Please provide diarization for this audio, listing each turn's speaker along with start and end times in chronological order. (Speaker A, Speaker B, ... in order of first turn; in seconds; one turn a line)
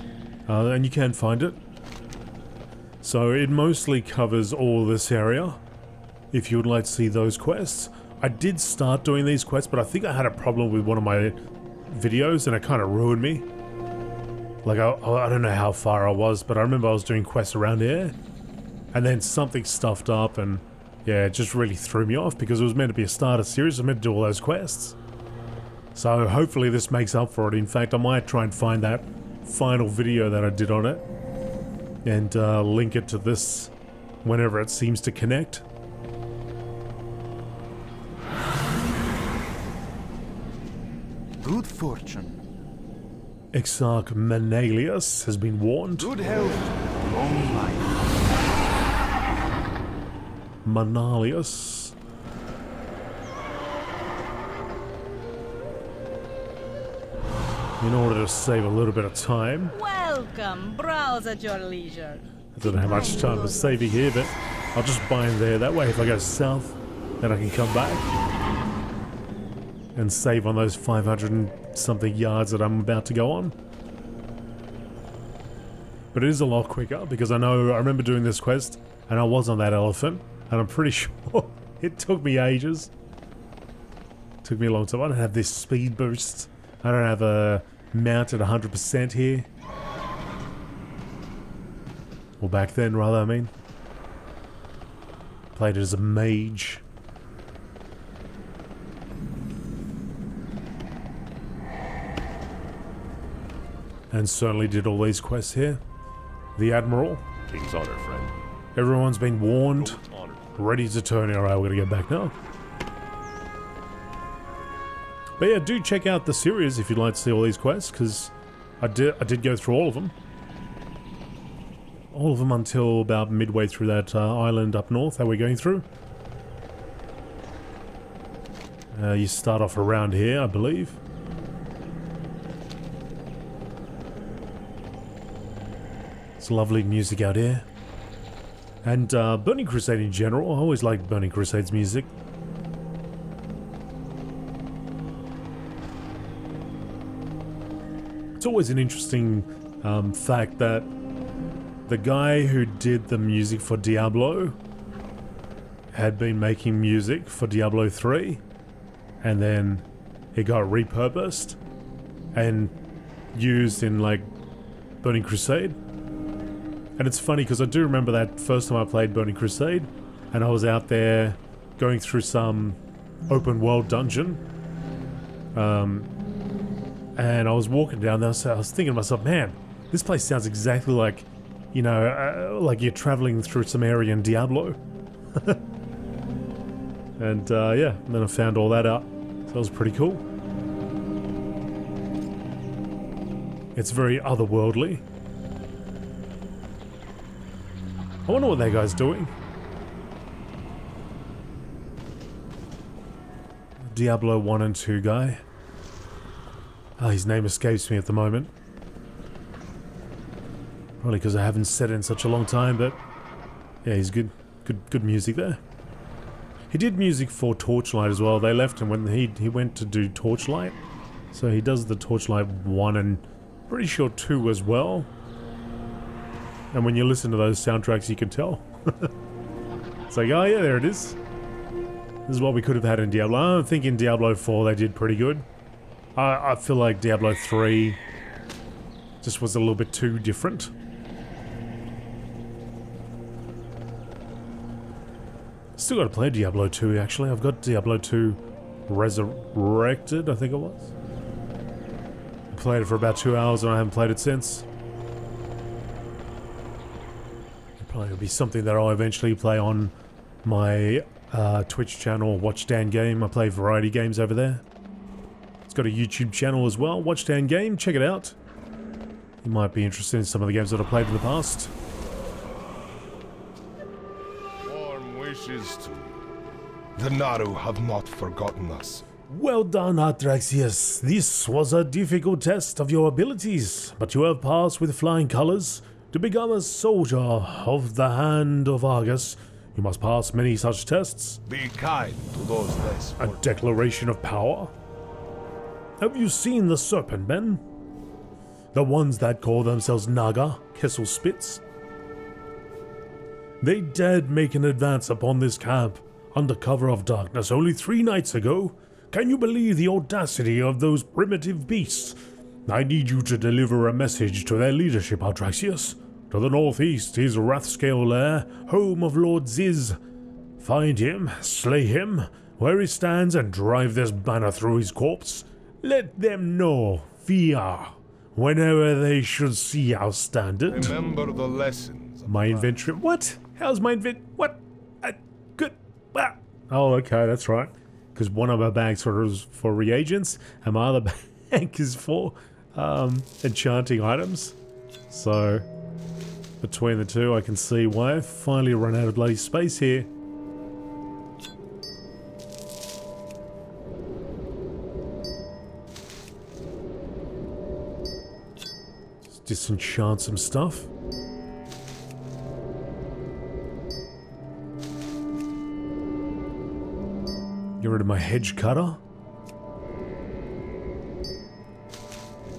Speaker A: 0.5-1.6
Speaker A: 3.0-5.6
Speaker A: 6.3-13.4
Speaker A: 14.6-18.1
Speaker A: 18.9-24.9
Speaker A: 25.9-31.0
Speaker A: 32.0-35.6
Speaker B: 41.4-42.4
Speaker A: 43.5-46.1
Speaker B: 46.0-48.0
Speaker A: 50.6-51.9
Speaker A: 57.8-59.7
Speaker C: 59.7-64.0
Speaker A: 62.5-68.1
Speaker A: 69.9-73.5
Speaker A: 76.1-82.9
Speaker A: 84.4-89.5
Speaker A: 92.4-93.5
Speaker A: 95.5-96.8
Speaker A: 104.1-105.8
Speaker A: 106.5-107.2
Speaker D: 107.5-108.4
Speaker A: 108.8-110.0
Speaker D: 109.8-110.5
Speaker A: 110.5-112.3
Speaker A: 115.4-120.1
Speaker A: 122.1-125.9
Speaker A: 128.9-131.0
Speaker A: 136.4-137.7
Speaker A: 138.8-142.1
Speaker A: 148.4-150.9
Speaker A: 151.9-154.6
Speaker A: 155.9-158.4
Speaker A: 159.2-161.6
Speaker A: 162.3-162.7
Speaker A: 163.3-164.3
Speaker A: 165.0-165.8
Speaker A: 167.0-174.4
Speaker A: 175.5-176.1
Speaker A: 177.2-184.8
Speaker A: 185.3-185.6
Speaker A: 187.2-190.2
Speaker A: 193.7-195.0
Speaker A: 198.2-199.3
Speaker A: 203.8-205.4
Speaker A: 207.0-208.5
Speaker A: 211.0-213.0
Speaker A: 213.8-215.6
Speaker A: 216.7-220.8
Speaker A: 221.3-225.1
Speaker A: 226.7-229.1
Speaker A: 230.1-231.2
Speaker A: 232.3-235.4
Speaker A: 236.2-238.0
Speaker A: 239.2-240.7
Speaker A: 245.8-250.9
Speaker A: 252.5-254.6
Speaker A: 257.8-264.6
Speaker A: 265.7-268.4
Speaker A: 269.4-271.7
Speaker D: 274.6-276.2
Speaker D: 276.9-279.0
Speaker A: 279.3-291.4
Speaker D: 291.5-293.5
Speaker A: 293.2-294.7
Speaker A: 296.0-297.6
Speaker A: 298.7-301.6
Speaker A: 303.6-320.0
Speaker A: 320.6-331.0
Speaker D: 330.7-332.7
Speaker A: 332.2-344.6
Speaker A: 345.1-345.7
Speaker A: 346.6-350.1
Speaker A: 359.3-360.9
Speaker A: 367.8-369.0